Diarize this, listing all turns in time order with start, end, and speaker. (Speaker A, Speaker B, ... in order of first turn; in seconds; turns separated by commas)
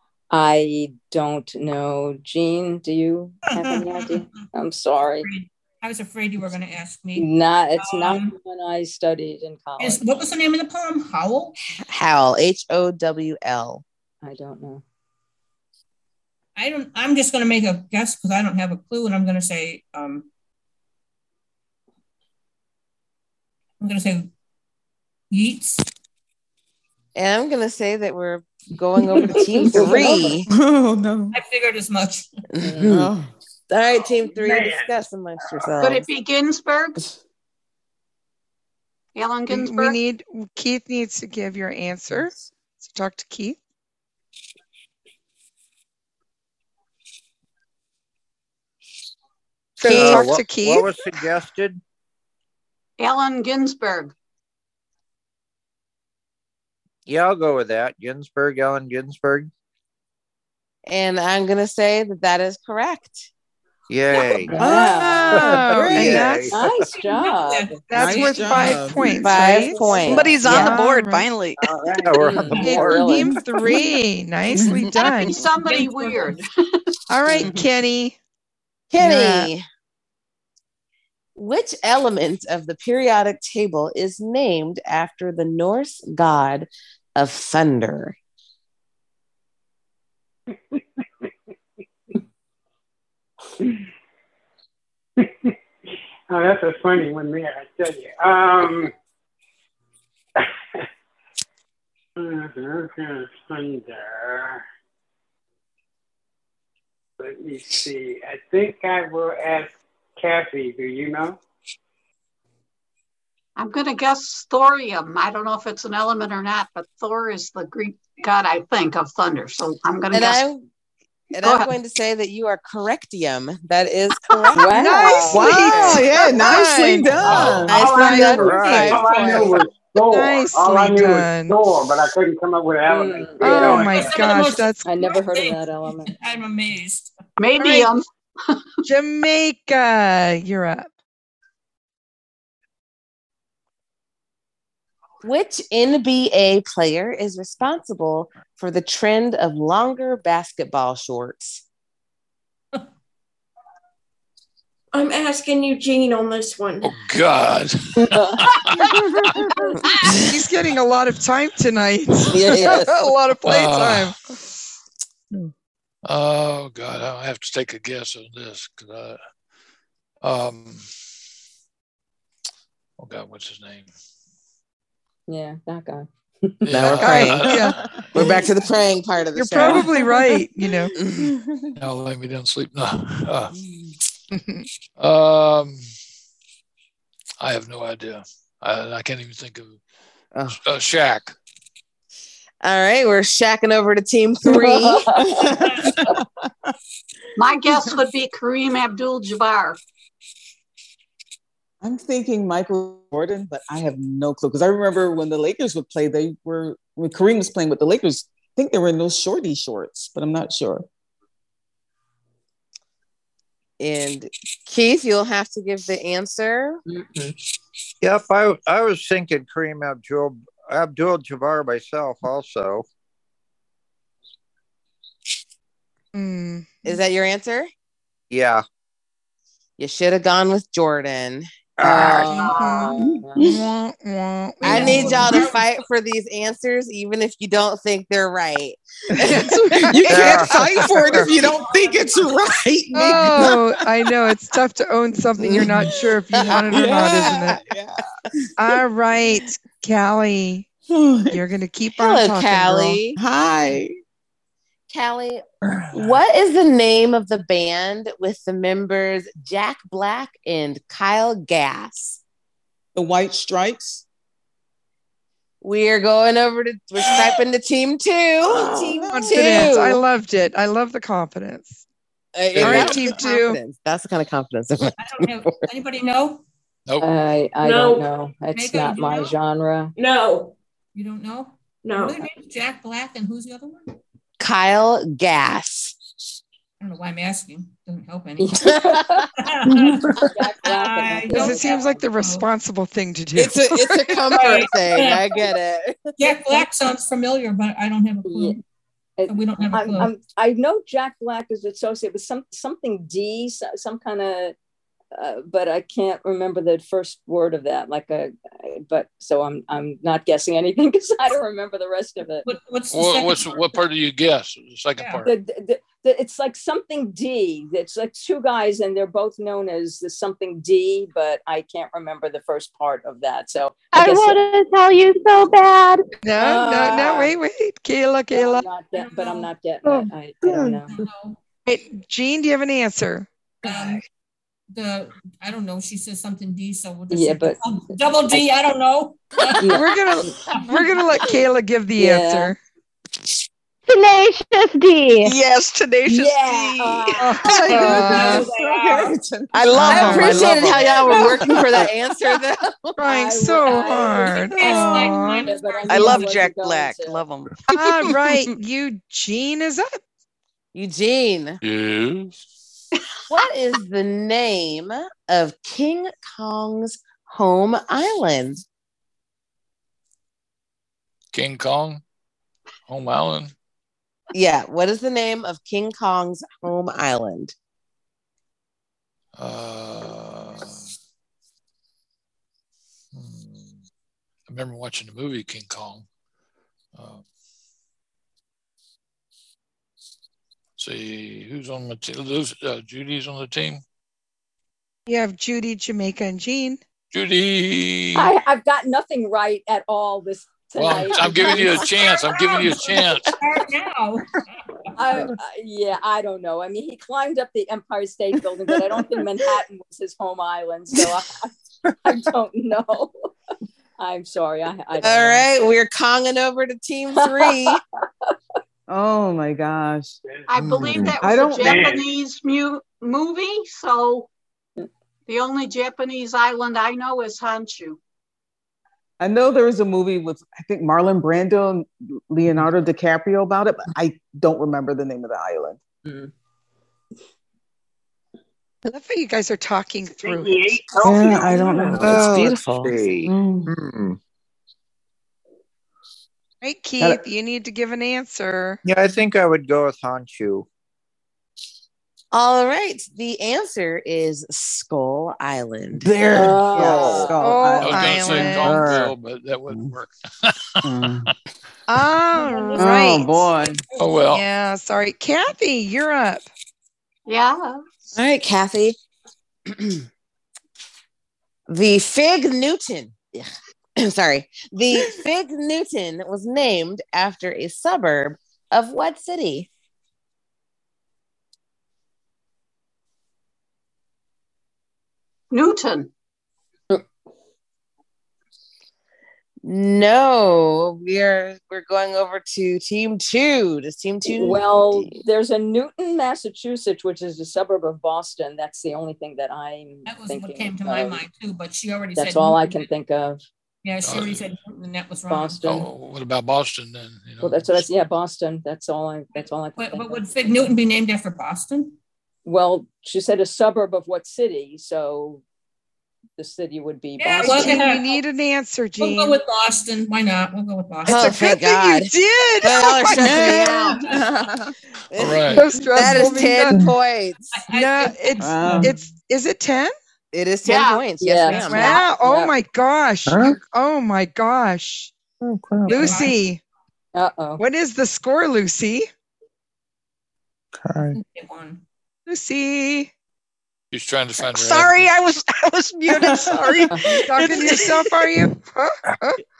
Speaker A: 0.3-5.2, Speaker B: 3.5-4.3, Speaker B: 5.2-7.3, Speaker A: 7.2-10.2, Speaker B: 7.8-8.3, Speaker B: 9.8-11.6, Speaker C: 11.8-13.8, Speaker A: 14.2-14.8, Speaker B: 16.6-20.3, Speaker B: 23.8-24.3, Speaker B: 25.3-25.8, Speaker C: 27.1-30.5, Speaker A: 29.1-30.3, Speaker D: 29.7-31.4, Speaker B: 31.3-32.3, Speaker C: 32.5-33.1, Speaker A: 32.6-32.9, Speaker D: 32.8-33.3, Speaker C: 33.7-36.0, Speaker E: 35.8-37.0, Speaker E: 39.1-40.0, Speaker F: 39.5-43.6, Speaker F: 49.8-51.0, Speaker G: 49.8-51.8, Speaker E: 53.0-54.1, Speaker G: 57.0-59.5, Speaker C: 60.9-63.3, Speaker G: 63.9-64.7, Speaker A: 64.5-65.5, Speaker D: 64.5-66.4, Speaker F: 64.8-66.5, Speaker G: 65.3-66.6, Speaker A: 66.5-67.7, Speaker B: 66.6-69.0, Speaker F: 67.9-71.3, Speaker D: 67.9-69.1, Speaker C: 69.2-70.7, Speaker H: 70.0-71.6, Speaker G: 71.8-73.3, Speaker A: 72.3-73.3, Speaker F: 72.6-75.4, Speaker D: 74.5-74.8, Speaker E: 74.9-76.5, Speaker B: 75.3-76.4, Speaker F: 77.1-78.2, Speaker C: 78.9-79.6, Speaker F: 79.0-79.5, Speaker C: 81.3-88.2, Speaker I: 95.2-95.5, Speaker I: 96.3-98.9, Speaker I: 102.2-104.6, Speaker I: 107.2-111.4, Speaker E: 113.5-120.4, Speaker C: 120.1-120.7, Speaker C: 121.3-126.2, Speaker E: 121.4-121.7, Speaker A: 124.5-125.6, Speaker F: 124.7-129.5, Speaker D: 125.2-127.9, Speaker C: 127.3-129.5, Speaker I: 127.3-134.1, Speaker G: 128.4-129.4, Speaker F: 130.1-131.6, Speaker A: 132.9-133.9, Speaker F: 133.4-134.8, Speaker B: 133.9-137.1, Speaker A: 134.8-136.1, Speaker E: 137.4-138.6, Speaker F: 138.8-140.9, Speaker C: 145.2-151.6, Speaker J: 154.9-156.9, Speaker K: 156.8-159.4, Speaker A: 158.0-158.4, Speaker F: 160.1-164.2, Speaker C: 162.3-162.9, Speaker K: 163.4-164.1, Speaker K: 166.0-169.2, Speaker K: 170.2-170.9, Speaker K: 173.0-173.9, Speaker A: 175.3-176.6, Speaker K: 176.7-178.0, Speaker C: 176.7-177.6, Speaker F: 177.0-177.8, Speaker C: 178.1-179.9, Speaker F: 179.3-180.9, Speaker C: 180.9-181.3, Speaker D: 181.2-181.7, Speaker K: 181.8-183.5, Speaker D: 183.5-183.9, Speaker F: 184.3-184.7, Speaker K: 185.0-185.8, Speaker K: 187.4-189.8, Speaker K: 190.5-191.3, Speaker C: 192.6-195.2, Speaker A: 194.5-195.3, Speaker D: 195.2-196.2, Speaker E: 197.3-199.8, Speaker D: 201.8-210.8, Speaker C: 213.8-216.8, Speaker A: 216.9-217.3, Speaker G: 218.0-222.8, Speaker F: 226.1-226.8, Speaker C: 226.8-227.7, Speaker G: 228.3-228.6, Speaker C: 229.8-232.9, Speaker G: 231.8-232.4, Speaker A: 232.3-233.4, Speaker F: 232.4-235.4, Speaker D: 233.0-233.5, Speaker B: 234.6-235.7, Speaker C: 234.6-239.6, Speaker F: 239.2-240.4, Speaker D: 239.2-243.7, Speaker G: 240.1-241.3, Speaker B: 241.4-242.5, Speaker F: 242.9-247.6, Speaker C: 245.4-245.8, Speaker D: 245.5-248.0, Speaker C: 246.3-247.4, Speaker F: 248.6-250.7, Speaker D: 250.9-251.4, Speaker F: 251.3-253.0, Speaker C: 251.9-253.2, Speaker D: 253.2-253.9, Speaker C: 254.9-262.2, Speaker D: 262.9-264.0, Speaker C: 265.6-270.0, Speaker D: 268.4-269.8, Speaker F: 269.1-271.8, Speaker C: 272.3-275.4, Speaker F: 272.6-273.6, Speaker B: 275.0-276.4, Speaker A: 277.0-279.9, Speaker J: 277.6-278.0, Speaker B: 278.5-279.3, Speaker J: 280.0-280.5, Speaker B: 280.9-283.9, Speaker J: 281.8-282.2, Speaker C: 284.4-285.9, Speaker B: 286.8-288.6, Speaker A: 288.4-289.2, Speaker B: 289.4-292.4, Speaker A: 290.2-292.0, Speaker F: 291.3-294.2, Speaker C: 293.3-296.0, Speaker B: 294.3-295.5, Speaker B: 296.2-298.6, Speaker A: 298.2-298.6, Speaker A: 299.2-304.5, Speaker B: 299.3-300.1, Speaker A: 305.1-312.5, Speaker B: 312.4-313.8, Speaker K: 312.9-315.3, Speaker A: 315.2-324.4, Speaker L: 323.9-326.1, Speaker F: 326.2-328.6, Speaker A: 326.4-327.3, Speaker A: 328.3-331.0, Speaker B: 328.9-329.5, Speaker B: 330.9-331.4, Speaker F: 331.6-333.3, Speaker B: 333.6-334.0, Speaker B: 334.7-339.7, Speaker A: 337.1-337.6, Speaker A: 339.6-340.3, Speaker F: 339.7-342.6, Speaker A: 342.0-342.5, Speaker L: 343.9-345.4, Speaker H: 345.2-347.3, Speaker A: 346.1-348.4, Speaker F: 347.2-348.5, Speaker D: 347.4-351.8, Speaker B: 347.8-349.1, Speaker H: 349.5-350.7, Speaker F: 349.7-350.5, Speaker C: 349.9-353.0, Speaker A: 349.9-350.4, Speaker F: 353.0-355.5, Speaker A: 353.0-357.2, Speaker B: 354.2-356.3, Speaker H: 355.9-358.3, Speaker F: 357.7-360.0, Speaker C: 360.7-361.6, Speaker K: 361.6-362.3, Speaker C: 363.3-368.6, Speaker K: 371.3-372.0, Speaker K: 372.9-373.5, Speaker C: 374.3-377.5, Speaker K: 379.4-380.9, Speaker K: 383.1-383.8, Speaker K: 384.5-386.1, Speaker K: 386.9-387.2, Speaker K: 390.8-393.8, Speaker F: 395.1-396.8, Speaker K: 397.1-398.3, Speaker A: 398.1-401.9, Speaker K: 400.8-403.3, Speaker B: 403.3-404.4, Speaker A: 404.9-411.5, Speaker A: 412.0-413.1, Speaker A: 414.0-415.4, Speaker C: 415.0-417.8, Speaker A: 417.4-417.7, Speaker D: 418.9-420.1, Speaker I: 420.2-420.5, Speaker E: 420.5-424.3, Speaker G: 420.6-421.2, Speaker D: 421.2-421.9, Speaker I: 421.6-422.0, Speaker E: 425.3-428.0, Speaker D: 429.2-435.8, Speaker F: 438.8-440.8, Speaker D: 441.0-442.4, Speaker G: 442.0-444.2, Speaker C: 442.0-442.9, Speaker D: 443.2-443.7, Speaker F: 446.6-448.8, Speaker G: 448.8-450.6, Speaker C: 452.3-456.1, Speaker D: 456.0-459.1, Speaker A: 456.3-457.3, Speaker G: 456.7-457.3, Speaker F: 457.4-458.9, Speaker K: 457.8-461.3, Speaker D: 460.8-461.3, Speaker F: 461.9-463.5, Speaker D: 462.8-463.8, Speaker K: 464.0-464.4, Speaker F: 464.3-466.5, Speaker E: 467.3-467.8, Speaker C: 468.1-469.0, Speaker C: 469.7-470.0, Speaker C: 471.7-479.7, Speaker E: 485.5-486.1, Speaker C: 489.6-495.1, Speaker A: 494.3-501.2, Speaker B: 500.1-502.9, Speaker A: 502.1-503.4, Speaker B: 503.8-505.7, Speaker K: 504.0-504.5, Speaker A: 505.3-505.9, Speaker K: 505.6-507.8, Speaker A: 507.4-510.3, Speaker B: 509.8-511.9, Speaker A: 512.5-515.4, Speaker A: 516.4-517.9, Speaker B: 517.2-518.1, Speaker F: 517.4-519.4, Speaker B: 519.0-521.3, Speaker C: 521.0-524.0, Speaker F: 521.1-523.8, Speaker D: 523.2-524.7, Speaker C: 525.1-527.5, Speaker K: 525.2-525.6, Speaker F: 525.5-526.8, Speaker B: 527.5-528.9, Speaker F: 527.7-529.9, Speaker D: 528.4-529.0, Speaker C: 530.3-532.0, Speaker E: 530.6-531.0, Speaker A: 531.2-532.5, Speaker F: 531.6-535.1, Speaker G: 533.3-533.5, Speaker G: 535.4-536.1, Speaker F: 535.9-536.6, Speaker B: 535.9-536.4, Speaker A: 537.1-537.6, Speaker F: 537.6-539.1, Speaker G: 540.8-541.1, Speaker B: 541.3-541.8, Speaker F: 542.3-543.1, Speaker K: 543.9-545.1, Speaker H: 544.4-548.1, Speaker D: 546.2-546.6, Speaker F: 547.2-549.4